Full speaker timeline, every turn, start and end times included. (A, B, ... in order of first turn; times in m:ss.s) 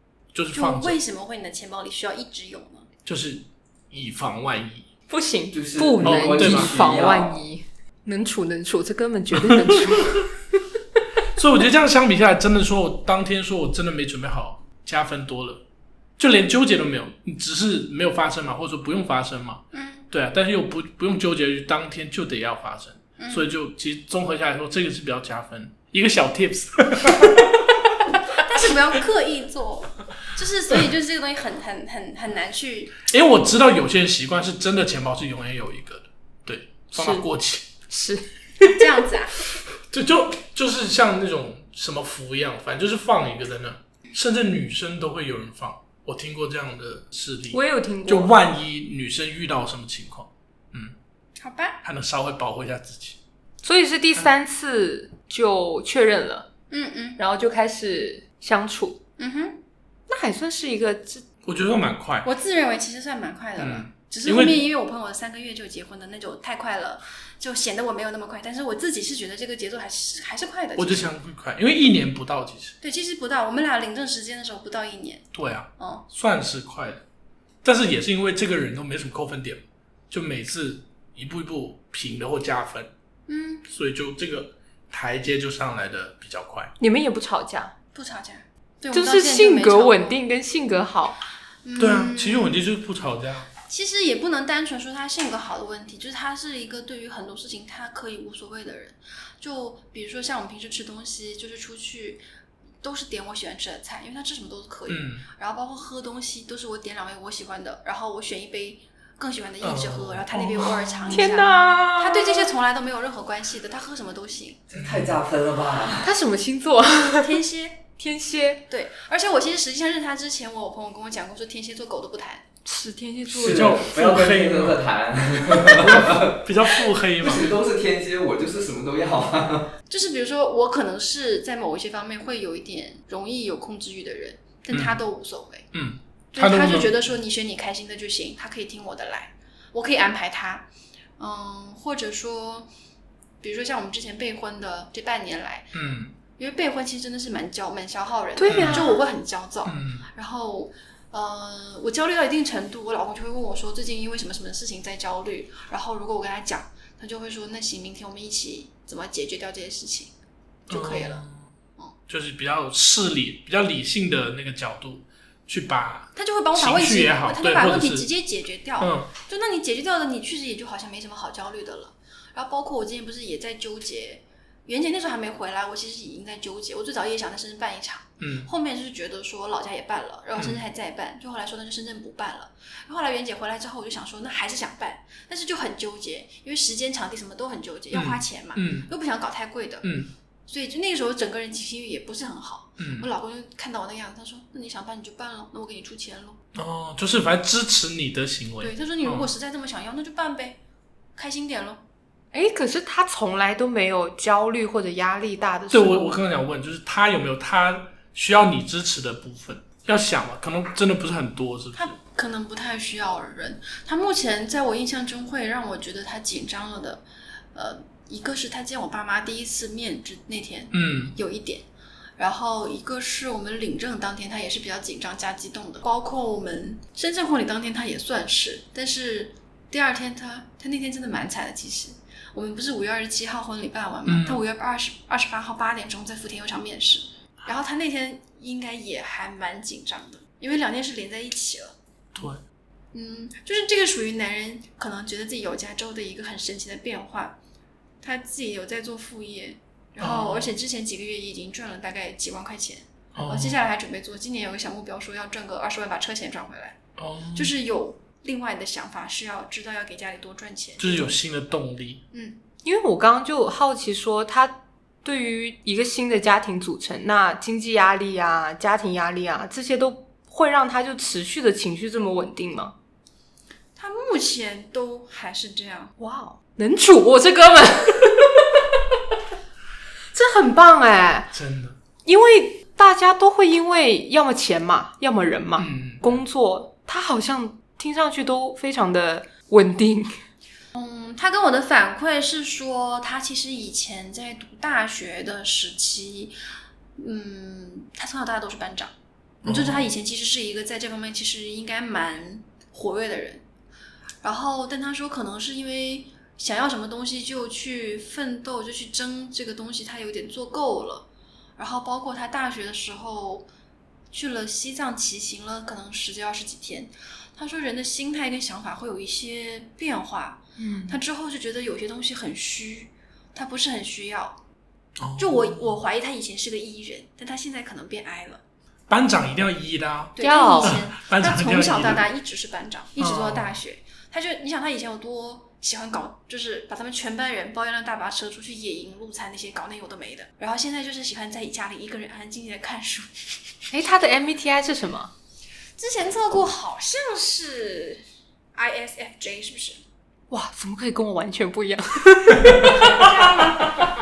0:00.3-0:01.0 A
0:00.5-0:02.9 B
0:03.0-0:04.9 A
0:05.1-0:10.2 C
0:05.5-0:07.4 D
0:06.0-0:06.7 A
0:09.3-0:10.2 A
0:11.3-0:15.6 A
0:16.2-0:27.6 A
0:19.7-0:20.1 B
0:23.2-0:23.5 B
0:28.4-0:33.0 B
0:33.1-0:37.7 A
0:36.9-0:37.2 C
0:37.9-0:38.8 C
0:38.6-0:39.4 B
0:39.9-0:50.9 A
0:47.5-0:48.3 C
0:51.4-0:51.8 B
0:51.8-0:53.2 A
0:53.6-0:56.5 C
0:56.7-0:57.2 B
0:57.2-0:59.0 C
0:59.2-0:59.6 B
1:00.1-1:01.2 C
1:01.4-1:02.3 A
1:02.2-1:11.1 B
1:03.6-1:04.6 A
1:10.8-1:12.7 A
1:12.8-1:16.0 B
1:15.3-1:17.0 A
1:17.6-1:22.9 A
1:23.3-1:23.6 B
1:23.7-1:26.7 A
1:26.8-1:27.7 C
1:27.9-1:30.2 B
1:28.9-1:31.2 C
1:31.6-1:32.6 B
1:31.8-1:33.5 A
1:33.7-1:42.2 B
1:42.8-1:54.6 B
1:44.9-1:45.2 A
1:49.6-1:51.2 A
1:51.1-1:52.5 C
1:54.7-1:56.2 D
1:54.8-1:55.1 A
1:56.0-1:57.3 C
1:57.2-1:57.9 B
1:58.0-1:58.6 C
1:58.7-2:02.4 B
2:02.6-2:03.8 C
2:03.3-2:06.4 D
2:03.3-2:04.8 A
2:05.5-2:07.5 A
2:07.2-2:09.7 D
2:09.9-2:15.7 B
2:14.7-2:15.0 A
2:15.7-2:16.9 A
2:16.3-2:20.7 B
2:21.2-2:22.7 B
2:23.4-2:25.7 B
2:25.7-2:26.1 A
2:26.3-2:40.1 B
2:28.4-2:29.0 C
2:28.5-2:28.9 A
2:29.6-2:30.1 A
2:40.7-2:41.2 B
2:40.7-2:41.5 A
2:42.1-2:48.0 A
2:46.2-3:09.9 B
2:48.8-2:49.1 A
2:58.2-2:58.5 A
3:07.9-3:08.9 A
3:09.8-3:10.1 A
3:10.5-3:16.4 B
3:12.8-3:13.1 A
3:16.5-3:19.3 A
3:18.6-3:20.6 B
3:21.2-3:21.8 B
3:22.3-3:26.1 C
3:25.7-3:32.0 A
3:31.8-3:37.0 B
3:37.5-3:41.6 B
3:40.7-3:41.1 A
3:42.2-4:01.7 B
3:54.1-3:54.4 A
4:02.1-4:02.4 A
4:02.9-4:07.4 B
4:08.0-4:16.8 B
4:10.0-4:10.5 A
4:13.1-4:13.6 A
4:17.0-4:17.5 A
4:17.3-4:21.1 B
4:20.8-4:22.0 A
4:22.1-4:22.4 B
4:22.6-4:32.7 C
4:33.8-4:35.9 B
4:36.0-4:38.6 C
4:40.1-4:41.3 C
4:41.3-4:41.8 A
4:42.0-4:50.2 C
4:45.6-4:46.2 A
4:50.7-4:56.3 B
4:57.0-4:58.9 B
4:59.4-4:59.9 A
4:59.4-5:03.4 B
5:04.2-5:11.1 B
5:11.6-5:13.5 B
5:14.1-5:24.4 B
5:20.6-5:21.0 C
5:25.0-5:25.8 A
5:25.2-5:28.4 B
5:28.9-5:32.0 A
5:30.2-5:43.1 B
5:30.2-5:30.8 C
5:33.0-5:33.5 A
5:43.7-5:45.1 C
5:45.8-5:48.0 B
5:48.5-5:49.8 B
5:50.3-5:53.7 C
5:53.0-5:53.5 B